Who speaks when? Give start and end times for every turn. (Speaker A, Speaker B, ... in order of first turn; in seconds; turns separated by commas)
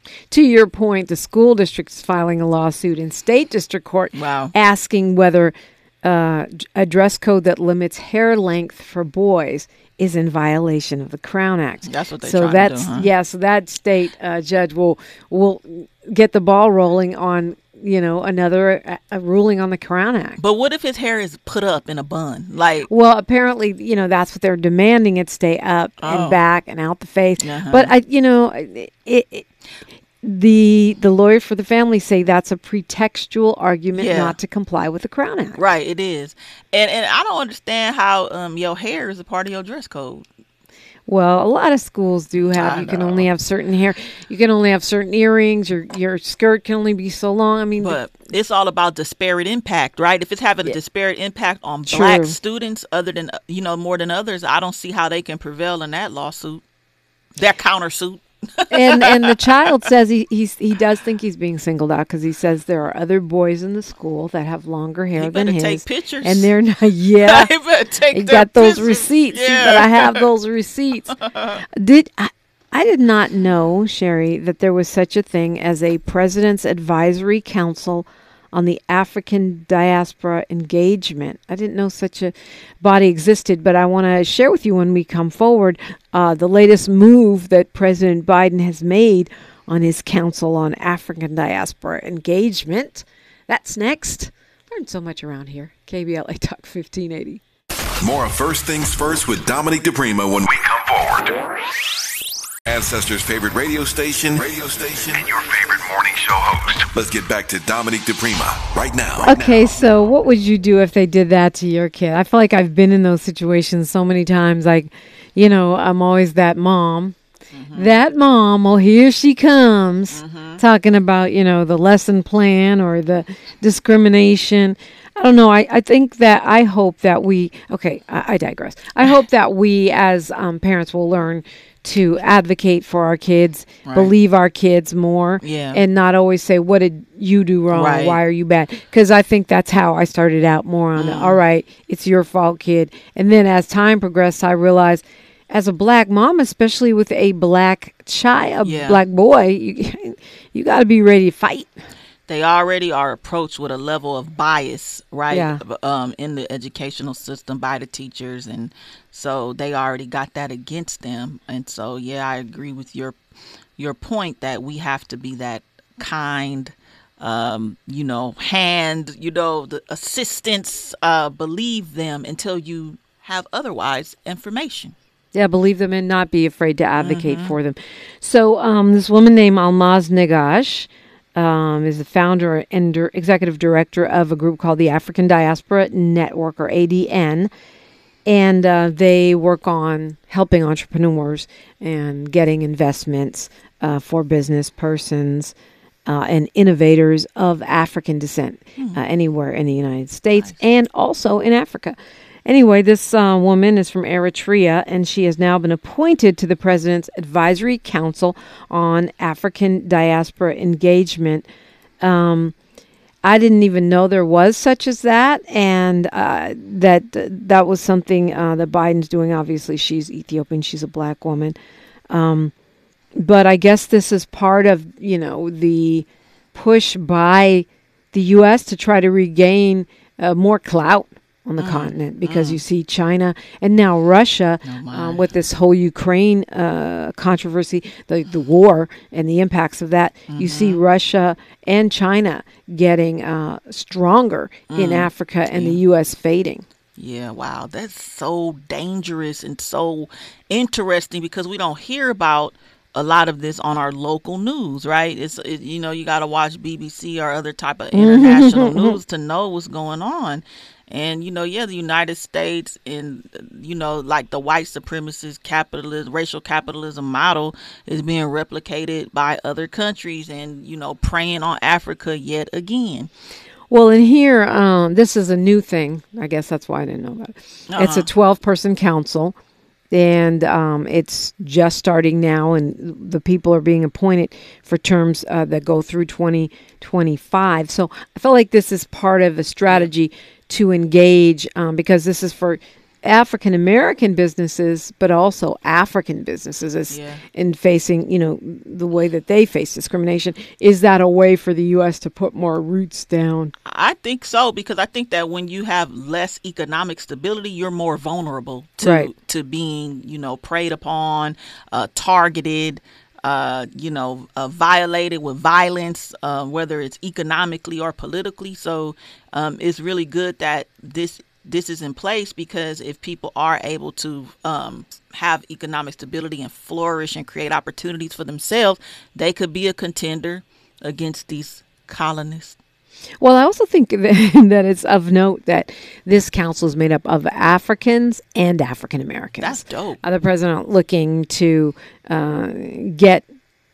Speaker A: 0.3-20.4, Speaker B: 4.1-4.5, Speaker B: 11.9-13.1, Speaker B: 20.4-22.9, Speaker A: 22.9-29.5, Speaker B: 26.0-26.4, Speaker B: 27.4-27.9, Speaker A: 30.2-35.6, Speaker B: 33.9-34.3, Speaker B: 35.6-40.2, Speaker A: 41.1-48.0, Speaker B: 42.5-43.2, Speaker B: 47.8-56.6, Speaker A: 51.9-52.4, Speaker B: 57.4-59.4, Speaker A: 58.7-67.5, Speaker B: 65.2-66.5, Speaker B: 67.2-70.3, Speaker A: 68.1-71.1, Speaker B: 71.1-71.6, Speaker A: 71.8-97.4, Speaker C: 98.0-101.3, Speaker C: 102.7-109.9, Speaker A: 109.2-117.2, Speaker B: 117.5-118.0, Speaker A: 117.7-151.7, Speaker B: 120.1-120.6, Speaker B: 133.8-134.1, Speaker B: 135.4-135.8, Speaker B: 137.7-138.2, Speaker B: 140.9-141.4, Speaker B: 148.6-149.0, Speaker B: 152.3-163.2, Speaker A: 155.3-155.6, Speaker B: 163.8-174.9, Speaker A: 175.3-187.5, Speaker B: 177.0-177.5, Speaker A: 188.3-195.5, Speaker A: 196.1-211.4, Speaker B: 198.8-199.0, Speaker A: 212.0-212.5, Speaker A: 213.2-221.6, Speaker A: 222.1-222.5, Speaker A: 223.2-246.6, Speaker B: 231.6-232.6, Speaker B: 234.6-235.2, Speaker B: 240.3-240.8, Speaker B: 244.7-245.8, Speaker B: 247.0-273.1, Speaker A: 257.9-259.0, Speaker A: 273.7-279.4, Speaker B: 277.7-278.1, Speaker A: 279.9-303.5, Speaker B: 296.9-297.2, Speaker B: 303.6-332.6, Speaker A: 308.8-309.1, Speaker A: 333.2-343.3, Speaker B: 339.4-340.0